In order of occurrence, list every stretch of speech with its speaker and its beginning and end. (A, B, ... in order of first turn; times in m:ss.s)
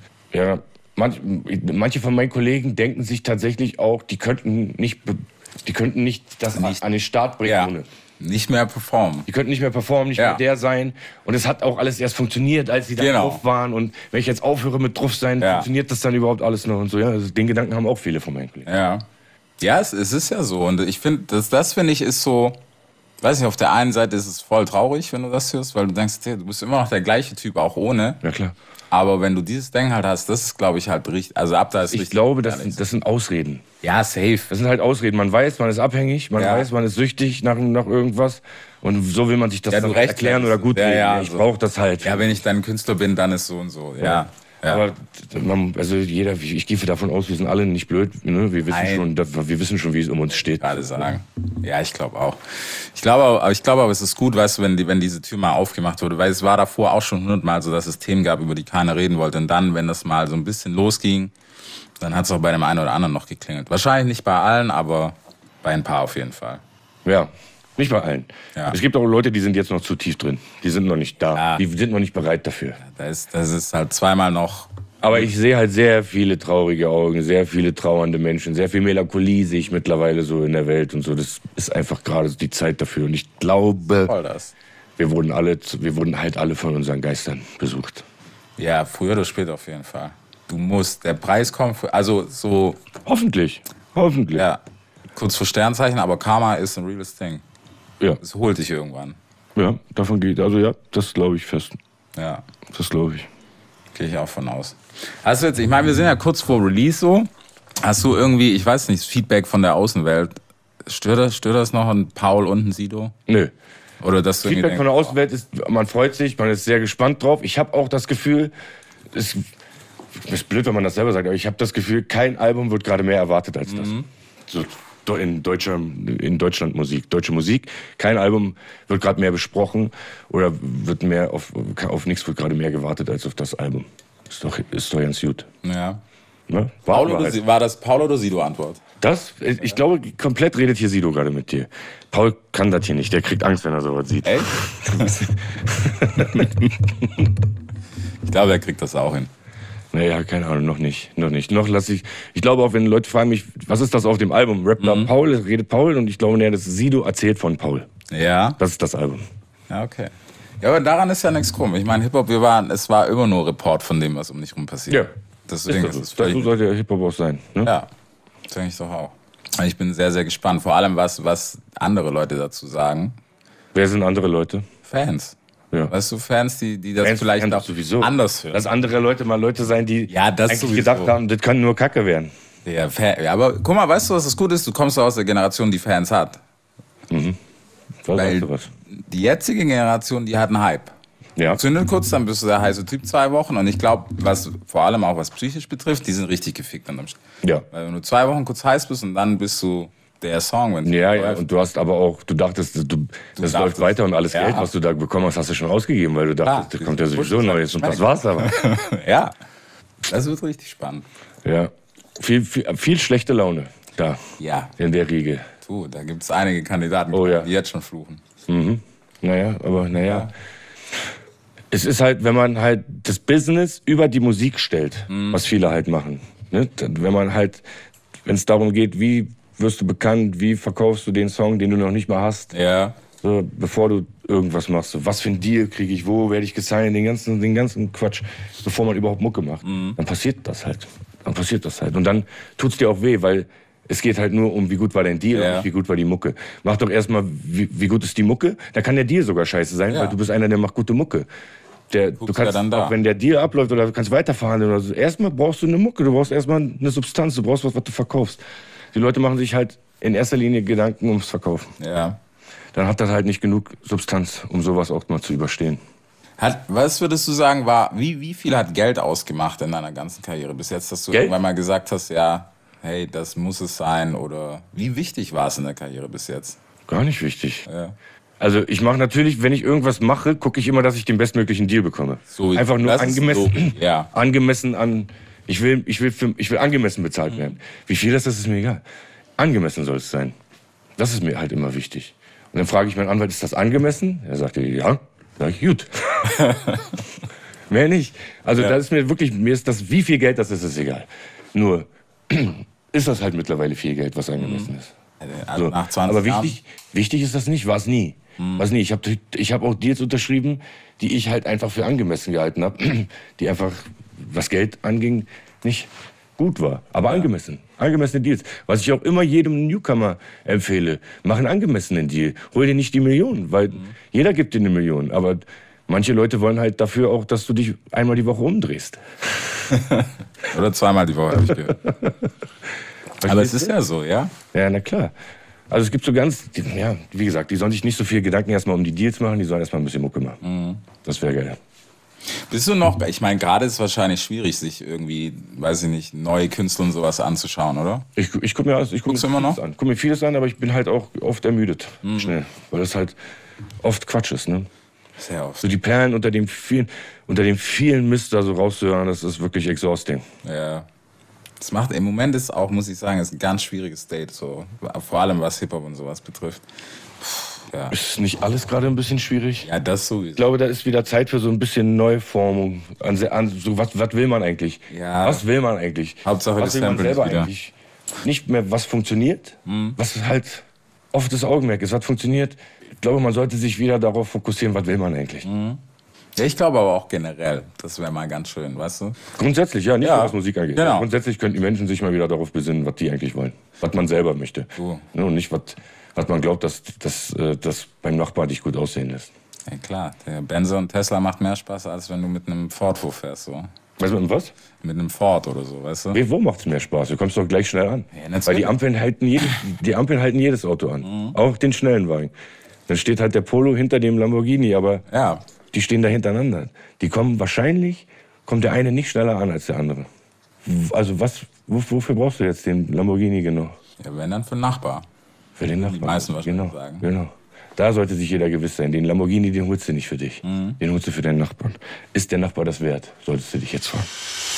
0:00.3-0:07.9 A
0:07.4-0:09.3 B
0:09.3-0:18.7 A
0:10.2-0:10.4 B
0:13.0-0:13.4 B
0:15.4-0:15.7 B
0:18.7-0:19.0 B
0:19.6-0:22.6 B
0:23.2-0:28.2 B
0:28.2-0:28.5 A
0:28.9-0:32.8 B
0:31.9-0:33.6 A
0:33.8-0:34.5 B
0:34.5-0:42.4 A
0:36.4-0:36.7 B
0:39.7-0:41.4 B
0:42.0-0:44.8 B
0:44.0-0:51.1 A
0:48.7-0:49.1 B
0:50.6-1:01.3 B
1:02.0-1:06.6 B
1:07.0-1:12.8 A
1:11.3-1:11.6 B
1:12.8-1:15.3 B
1:15.0-1:24.1 A
1:24.0-1:24.5 B
1:25.0-1:28.0 A
1:28.6-1:32.8 B
1:33.0-1:34.4 A
1:34.4-1:34.6 B
1:35.2-1:37.4 B
1:38.2-1:39.2 B
1:39.6-1:41.7 A
1:42.2-1:42.4 B
1:42.7-1:43.3 A
1:43.9-1:47.3 B
1:47.8-1:53.1 B
1:53.3-1:53.5 A
1:54.0-1:55.1 B
1:54.4-1:58.5 A
1:59.1-1:59.5 A
2:00.2-2:15.5 A
2:03.7-2:04.1 B
2:15.6-2:16.0 B
2:16.5-2:17.4 A
2:16.9-2:18.8 B
2:19.0-2:27.3 A
2:24.2-2:25.3 B
2:26.2-2:26.5 B
2:28.2-2:29.3 B
2:29.9-2:37.9 A
2:34.8-2:35.1 B
2:38.1-2:38.6 B
2:38.6-2:39.2 A
2:39.7-2:46.5 B
2:45.7-2:47.7 A
2:47.6-2:47.9 B
2:48.5-2:53.2 B
2:53.7-2:54.6 A
2:54.9-2:55.4 B
2:55.9-2:58.6 B
2:57.0-3:02.3 A
3:00.1-3:01.2 B
3:02.6-3:06.4 B
3:07.1-3:07.4 A
3:08.0-3:08.7 A
3:08.1-3:10.9 B
3:11.4-3:17.2 B
3:17.7-3:21.4 B
3:20.8-3:28.5 A
3:23.4-3:24.7 B
3:26.4-3:29.3 B
3:30.1-3:31.1 B
3:31.4-3:34.2 A
3:34.4-3:34.7 B
3:34.8-3:35.5 A
3:35.6-3:38.2 B
3:37.1-3:37.5 A
3:38.5-3:40.3 A
3:40.0-3:40.3 B
3:41.7-3:47.6 A
3:45.1-3:45.4 B
3:48.2-3:52.5 A
3:52.5-3:53.0 B
3:53.2-4:11.3 A
3:59.6-4:00.0 B
4:05.3-4:05.7 B
4:09.9-4:10.2 B
4:11.9-4:18.4 A
4:12.2-4:13.0 B
4:18.9-4:21.7 A
4:21.8-4:22.2 B
4:22.7-4:25.8 A
4:26.4-4:36.6 B
4:36.9-4:37.7 A
4:37.7-4:37.9 B
4:38.4-4:48.8 A
4:42.3-4:44.1 B
4:49.4-4:50.3 A
4:51.0-4:56.4 A
4:56.2-4:57.0 B
4:57.7-5:04.9 A
5:04.4-5:06.6 B
5:05.6-5:29.5 A
5:08.4-5:08.7 B
5:29.7-5:32.1 B
5:31.5-5:32.1 A
5:33.2-5:33.7 A
5:33.2-5:34.3 B
5:34.5-5:35.1 A
5:35.7-5:40.4 A
5:40.4-5:40.8 B
5:41.0-5:41.6 A
5:42.2-5:48.1 B
5:48.2-5:53.2 A
5:49.1-5:49.6 B
5:52.0-5:52.4 B
5:53.8-5:54.7 A
5:55.2-5:55.7 B
5:55.6-6:00.2 A
6:00.4-6:00.9 B
6:01.6-6:06.6 B
6:07.2-6:08.0 B
6:07.9-6:09.7 A
6:09.6-6:10.5 B
6:10.4-6:25.5 A
6:14.9-6:15.4 B
6:16.2-6:17.5 B
6:19.7-6:20.0 B
6:25.4-6:25.8 B
6:26.4-6:29.2 B
6:29.4-6:39.3 A
6:30.0-6:31.1 B
6:34.8-6:35.0 B
6:39.7-6:43.7 B
6:44.0-6:44.5 A
6:44.8-6:46.2 B
6:46.1-6:52.3 A
6:48.1-6:48.8 B
6:51.0-6:51.4 B
6:52.9-6:55.0 A
6:55.1-6:55.4 B
6:55.7-7:00.1 A
7:00.6-7:03.8 A
7:04.0-7:05.1 B
7:05.6-7:14.1 A
7:05.8-7:07.1 B
7:10.4-7:10.8 B